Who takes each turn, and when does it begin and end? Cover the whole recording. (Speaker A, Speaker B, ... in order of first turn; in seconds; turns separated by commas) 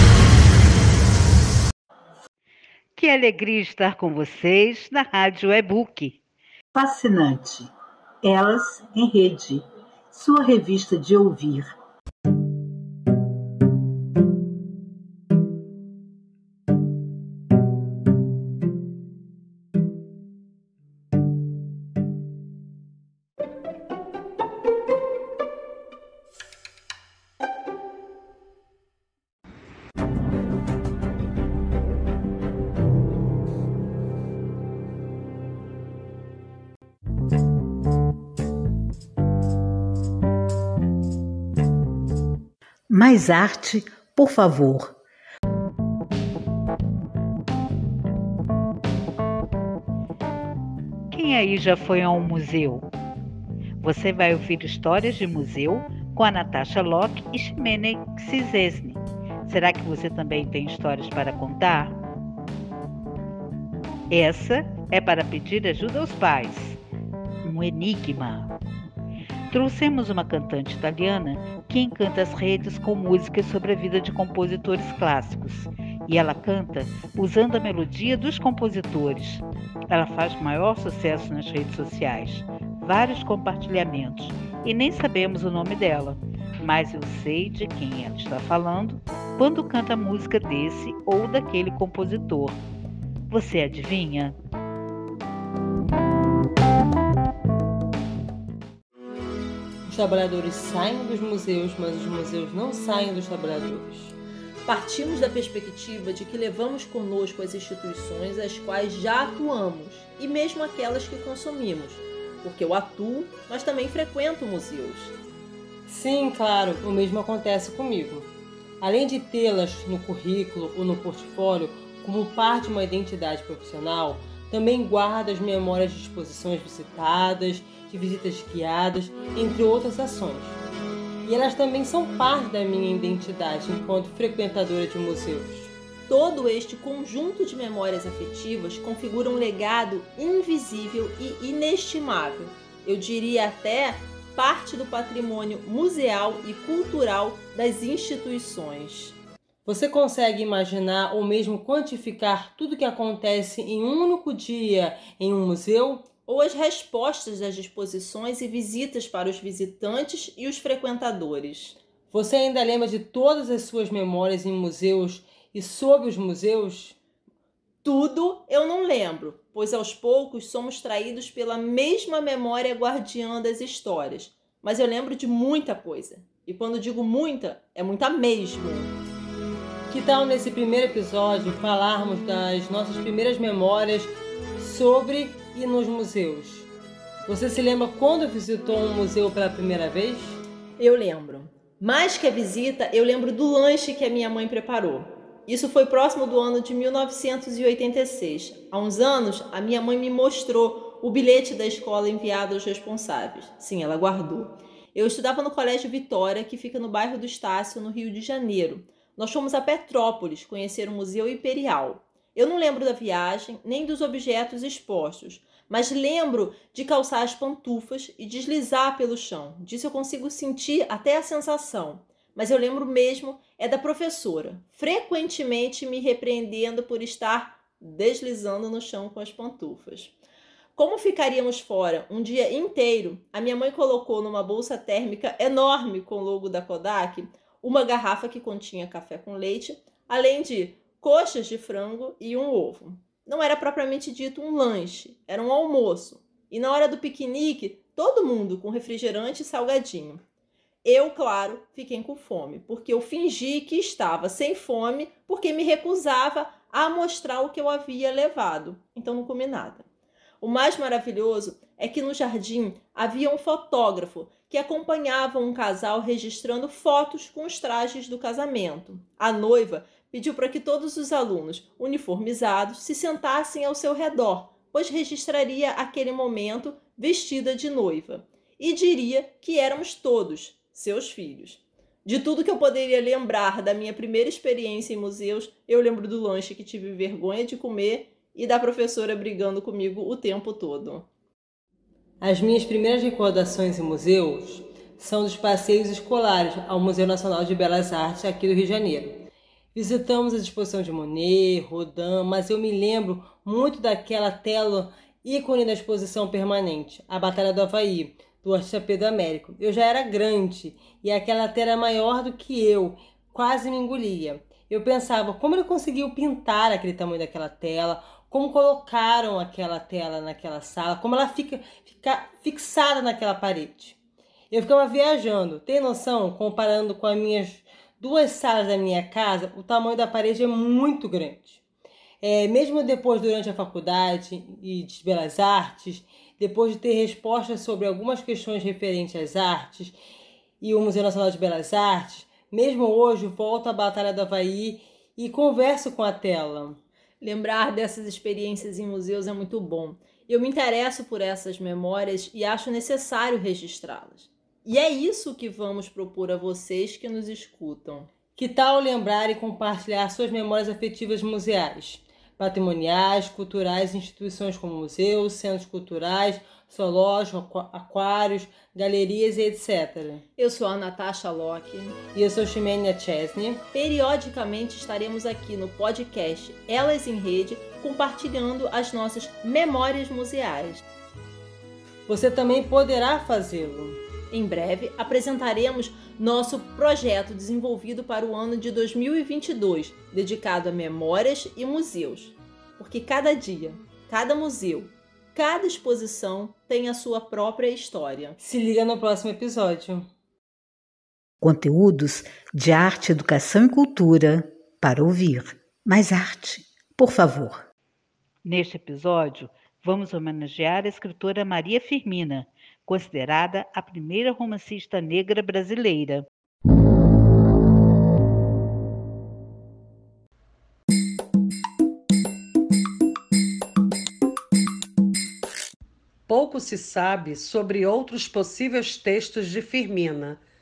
Speaker A: 3.0-6.2, Speaker B: 6.7-7.7, Speaker B: 8.2-11.7, Speaker A: 42.9-45.0, Speaker A: 51.1-52.9, Speaker A: 53.8-62.0, Speaker A: 64.1-66.8, Speaker A: 67.4-68.5, Speaker A: 69.5-92.6, Speaker A: 93.3-94.4, Speaker C: 99.8-104.1, Speaker D: 104.6-115.1, Speaker C: 115.9-130.6, Speaker C: 131.2-135.7, Speaker D: 136.1-149.2, Speaker C: 149.7-156.1, Speaker D: 156.2-161.8, Speaker C: 162.1-167.0, Speaker D: 167.8-178.9, Speaker C: 179.9-186.7, Speaker C: 187.2-190.4, Speaker D: 190.8-230.1, Speaker D: 230.8-250.2, Speaker D: 250.8-259.9, Speaker D: 260.4-291.1, Speaker C: 292.2-324.0, Speaker C: 324.5-331.6, Speaker C: 332.2-340.0, Speaker C: 340.6-346.8, Speaker D: 347.2-358.1, Speaker C: 358.4-370.2, Speaker D: 370.4-372.0, Speaker C: 372.1-373.6, Speaker D: 373.7-380.8, Speaker C: 382.1-384.0, Speaker D: 384.3-398.4, Speaker C: 398.4-400.1, Speaker A: 401.4-407.6, Speaker A: 408.4-416.3, Speaker E: 426.3-430.4